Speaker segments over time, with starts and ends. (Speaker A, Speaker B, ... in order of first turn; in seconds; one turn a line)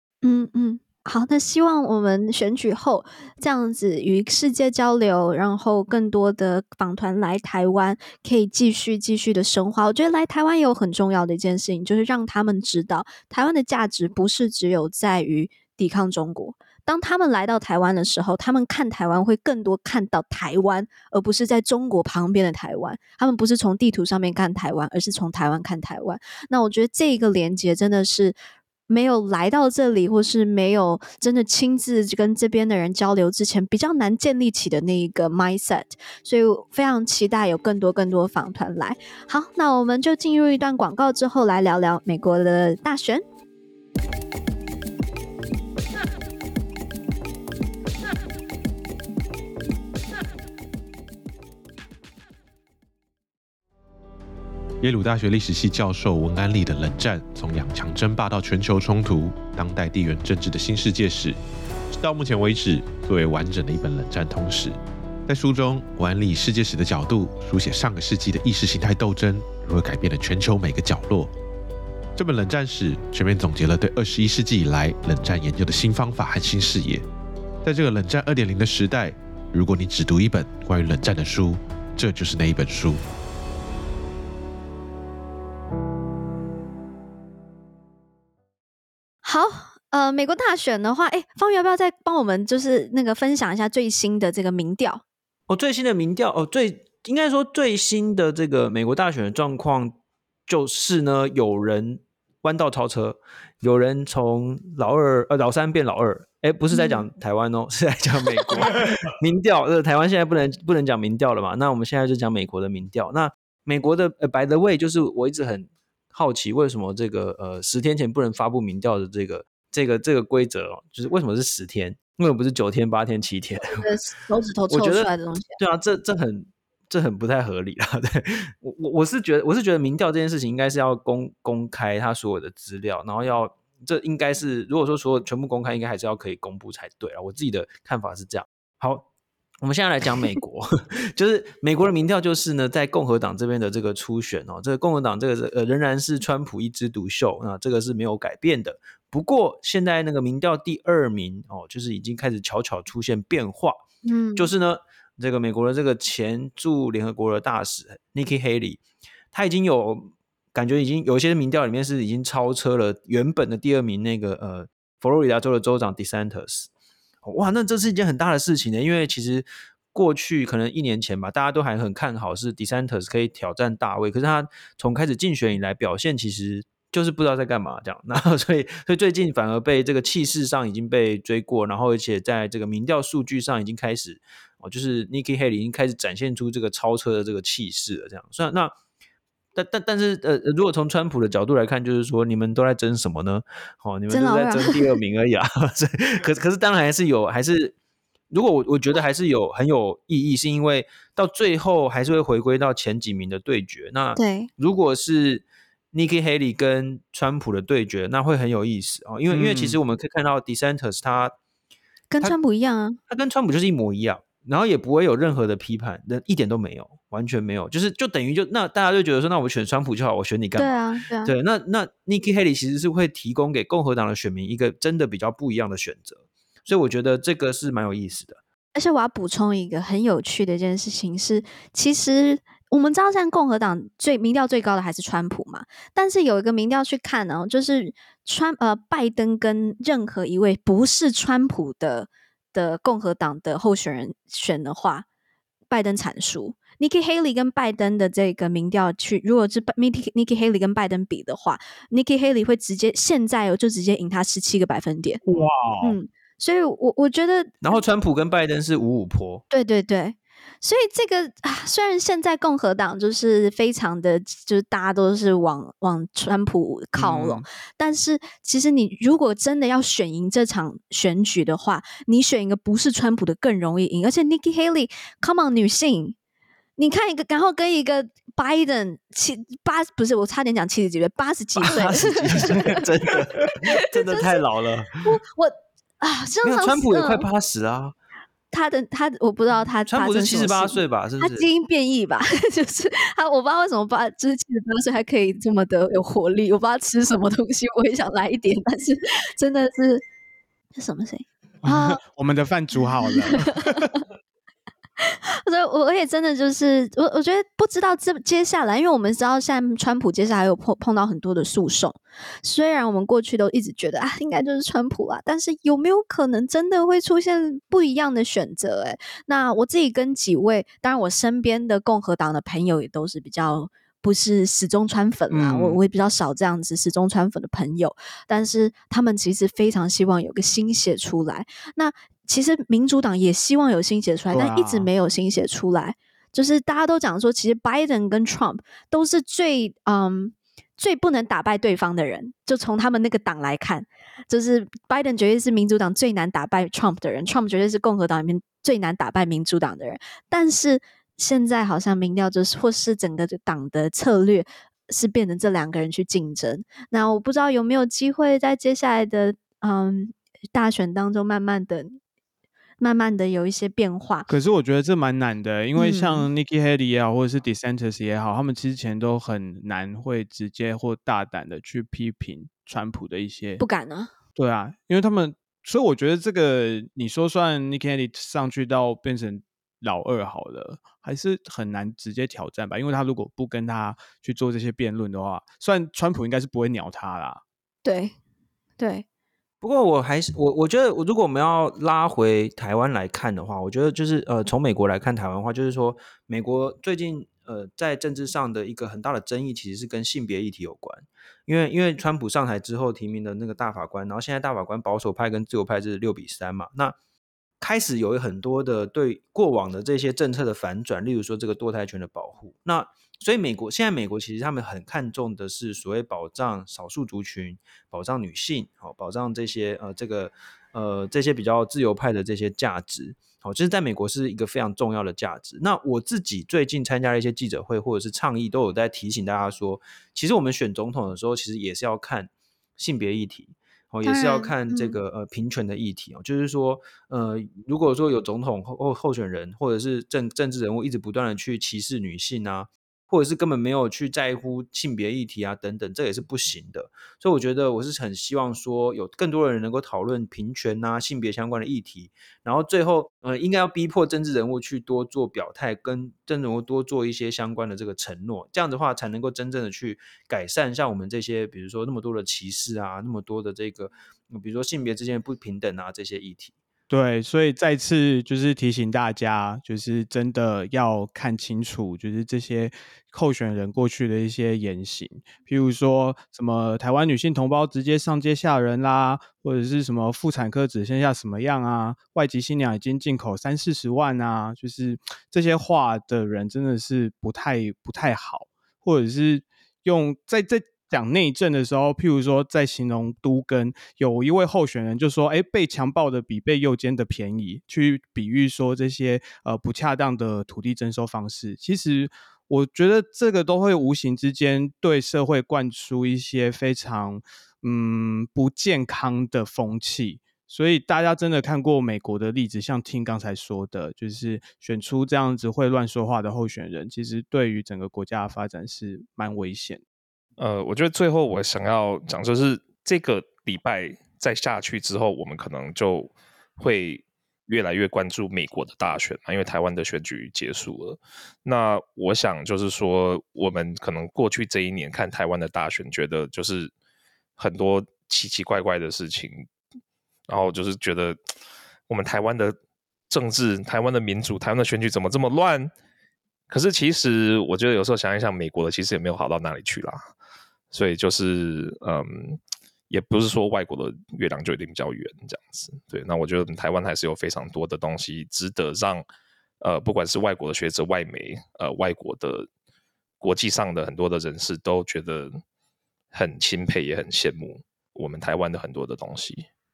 Speaker A: 0.2-28.4
Speaker A: 28.9-43.2
Speaker B: 54.8-61.4
Speaker B: 61.9-64.8
Speaker B: 65.3-71.3
Speaker B: 72.2-77.0
Speaker B: 77.6-83.0
Speaker A: 89.2-95.0
Speaker C: 95.5-123.8
Speaker A: 106.7-107.0
Speaker A: 123.8-125.6
Speaker C: 124.7-139.1
Speaker C: 139.6-153.8
Speaker A: 154.1-154.5
Speaker C: 154.4-158.8
Speaker C: 159.3-166.7
Speaker C: 167.2-188.7
Speaker C: 189.6-197.7
Speaker A: 194.1-194.8
Speaker C: 198.3-211.3
Speaker A: 204.2-204.5
Speaker D: 209.3-209.8
Speaker A: 212.1-213.0
Speaker C: 213.1-228.4
Speaker A: 220.6-221.3
Speaker A: 228.7-245.1
Speaker A: 245.7-257.8
Speaker D: 255.2-256.0
Speaker C: 257.6-259.4
Speaker A: 259.5-276.2
Speaker D: 266.9-267.4
Speaker A: 276.8-282.8
Speaker C: 281.6-285.1
Speaker A: 283.9-284.4
Speaker A: 285.0-287.3
Speaker C: 286.4-287.9
Speaker A: 288.5-300.0
Speaker C: 289.9-291.4
Speaker A: 300.8-302.0
Speaker D: 301.6-303.9
Speaker A: 303.1-303.9
Speaker A: 305.0-362.0
Speaker D: 325.3-325.8
Speaker D: 334.3-334.9
Speaker A: 362.8-364.3
Speaker D: 364.3-373.6
Speaker A: 365.7-366.3
Speaker A: 373.6-374.1
Speaker D: 374.4-387.4
Speaker A: 387.9-388.1
Speaker A: 388.8-389.1
Speaker C: 389.6-406.9
Speaker C: 407.6-466.6
Speaker A: 434.1-435.0
Speaker D: 466.9-519.8
Speaker E: 520.4-536.7
Speaker E: 537.4-539.5
Speaker E: 540.3-541.2
Speaker E: 541.9-542.6
Speaker E: 543.1-545.7
Speaker E: 546.5-550.0
Speaker E: 550.7-559.0
Speaker E: 559.6-562.5
Speaker E: 563.2-565.4
Speaker E: 566.1-569.5